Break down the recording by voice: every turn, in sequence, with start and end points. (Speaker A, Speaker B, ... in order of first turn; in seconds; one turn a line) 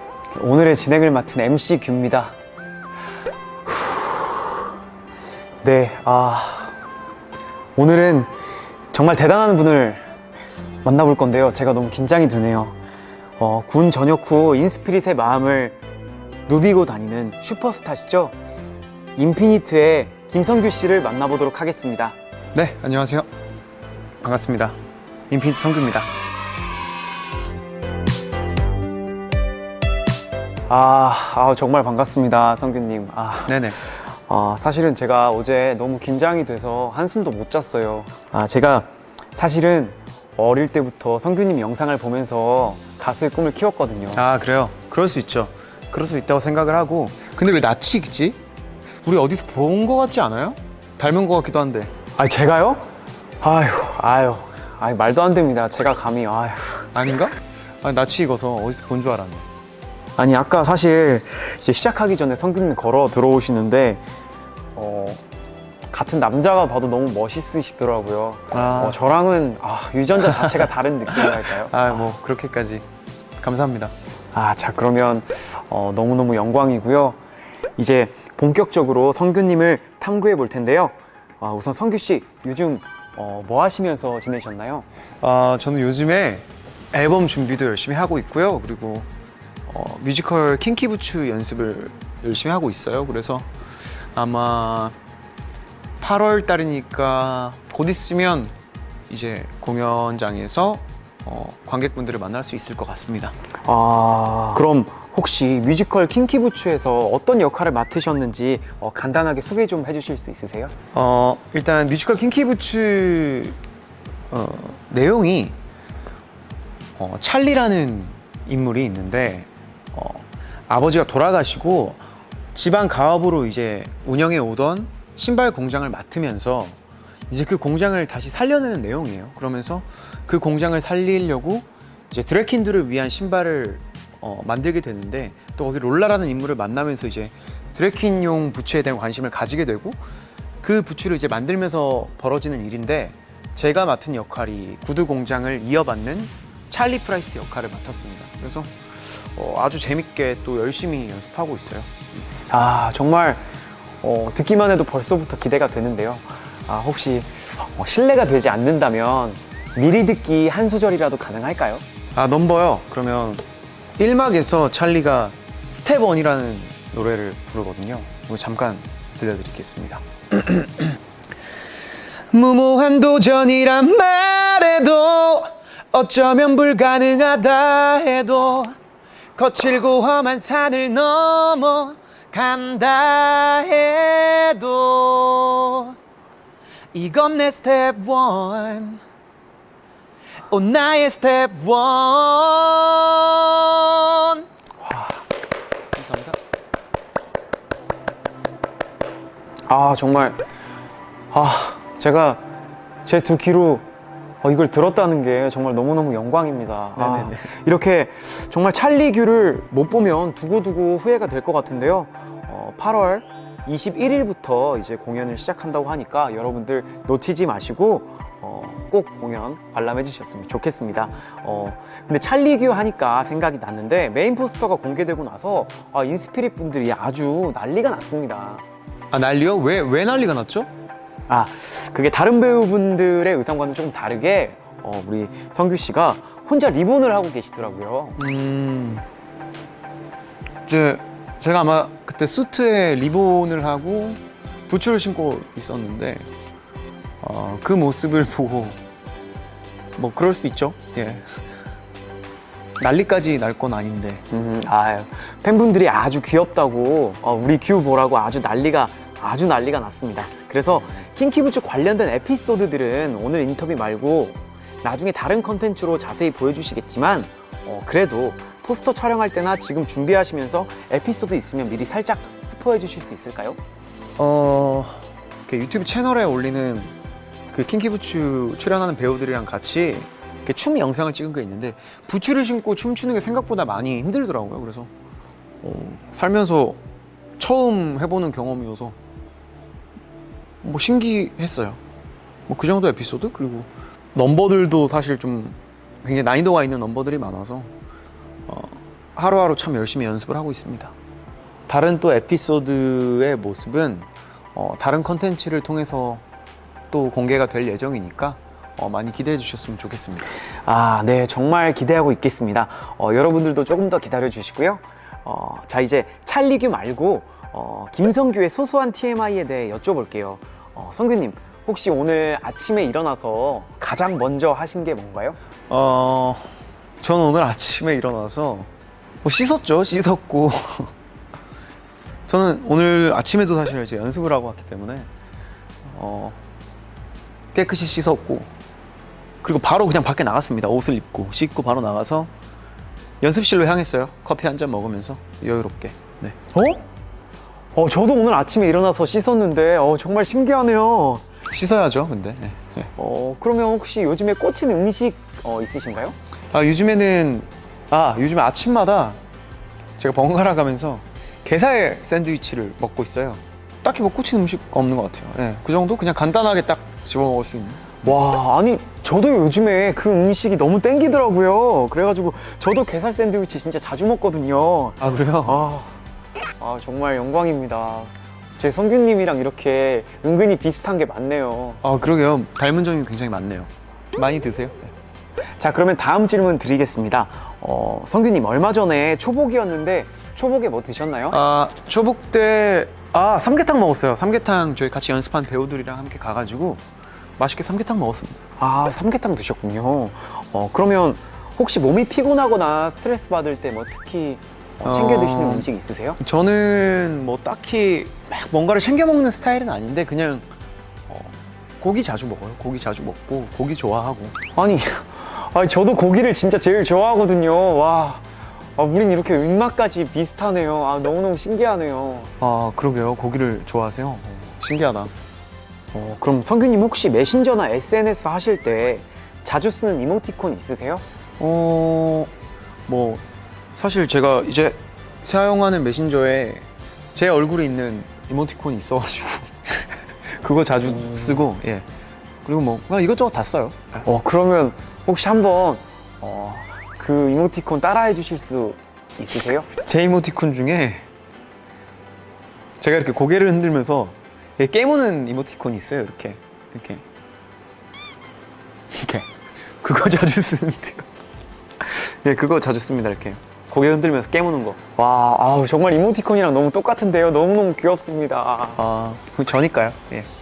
Speaker A: 0.3-2.3
Speaker A: 3.7-4.1
Speaker A: 5.6-6.7
Speaker A: 7.8-8.3
Speaker A: 8.9-10.0
Speaker A: 10.8-12.7
Speaker A: 13.4-15.8
Speaker A: 16.5-18.3
Speaker A: 19.1-22.1
Speaker B: 22.5-23.3
Speaker B: 24.2-24.8
Speaker B: 25.3-26.1
Speaker A: 30.7-44.2
Speaker B: 33.5-33.8
Speaker B: 44.1-48.4
Speaker B: 49.0-51.9
Speaker A: 52.1-52.8
Speaker A: 53.4-56.9
Speaker B: 56.9-59.5
Speaker A: 60.2-64.0
Speaker A: 64.8-65.2
Speaker A: 65.9-72.0
Speaker B: 68.5-69.0
Speaker B: 70.2-72.8
Speaker B: 73.4-73.9
Speaker A: 74.3-77.2
Speaker A: 77.8-84.9
Speaker B: 85.2-89.1
Speaker B: 89.7-95.0
Speaker B: 96.0-98.5
Speaker B: 99.1-103.3
Speaker A: 103.6-110.7
Speaker B: 110.9-113.6
Speaker B: 114.3-115.5
Speaker B: 117.0-122.0
Speaker B: 122.5-126.8
Speaker B: 127.3-140.0
Speaker B: 140.6-152.1
Speaker A: 152.5-153.4
Speaker A: 154.0-161.8
Speaker B: 162.1-163.4
Speaker B: 164.0-171.0
Speaker B: 172.3-178.8
Speaker B: 179.4-185.9
Speaker B: 186.9-189.0
Speaker B: 190.5-194.4
Speaker A: 194.8-195.1
Speaker B: 195.9-196.3
Speaker A: 199.7-200.4
Speaker A: 201.3-202.4
Speaker A: 203.0-203.8
Speaker A: 204.4-228.6
Speaker B: 207.0-207.5
Speaker B: 229.1-230.7
Speaker A: 231.3-238.2
Speaker B: 238.2-239.0
Speaker B: 240.7-246.3
Speaker B: 247.2-248.8
Speaker B: 249.9-251.3
Speaker B: 252.8-254.2
Speaker A: 254.3-273.6
Speaker B: 274.2-276.9
Speaker B: 277.5-284.9
Speaker B: 285.6-286.8
Speaker B: 287.4-289.0
Speaker B: 290.6-291.8
Speaker B: 292.5-297.7
Speaker B: 298.5-300.9
Speaker B: 301.7-306.2
Speaker B: 306.9-310.4
Speaker A: 310.6-325.4
Speaker B: 325.7-328.7
Speaker B: 329.2-330.9
Speaker B: 332.3-335.1
Speaker B: 335.8-336.4
Speaker B: 337.5-338.5
Speaker B: 339.4-342.3
Speaker B: 343.2-346.5
Speaker A: 346.6-346.8
Speaker A: 347.7-351.3
Speaker B: 351.5-352.9
Speaker A: 352.9-356.1
Speaker B: 356.5-359.2
Speaker B: 360.0-368.1
Speaker A: 368.0-376.0
Speaker B: 375.0-375.6
Speaker A: 376.6-381.8
Speaker B: 381.8-384.9
Speaker A: 385.6-391.4
Speaker B: 391.3-396.8
Speaker B: 397.4-398.4
Speaker A: 398.6-406.2
Speaker B: 404.8-405.7
Speaker B: 406.2-410.5
Speaker B: 411.1-414.4
Speaker A: 414.5-418.2
Speaker A: 418.8-422.3
Speaker B: 422.4-425.1
Speaker A: 425.9-431.0
Speaker B: 431.4-432.3
Speaker B: 432.9-433.2
Speaker B: 433.8-441.9
Speaker B: 442.4-444.0
Speaker A: 444.0-449.7
Speaker B: 449.8-451.1
Speaker B: 452.8-457.0
Speaker B: 458.9-459.3
Speaker B: 459.8-461.1
Speaker B: 461.8-464.9
Speaker A: 464.8-468.8
Speaker B: 468.8-470.3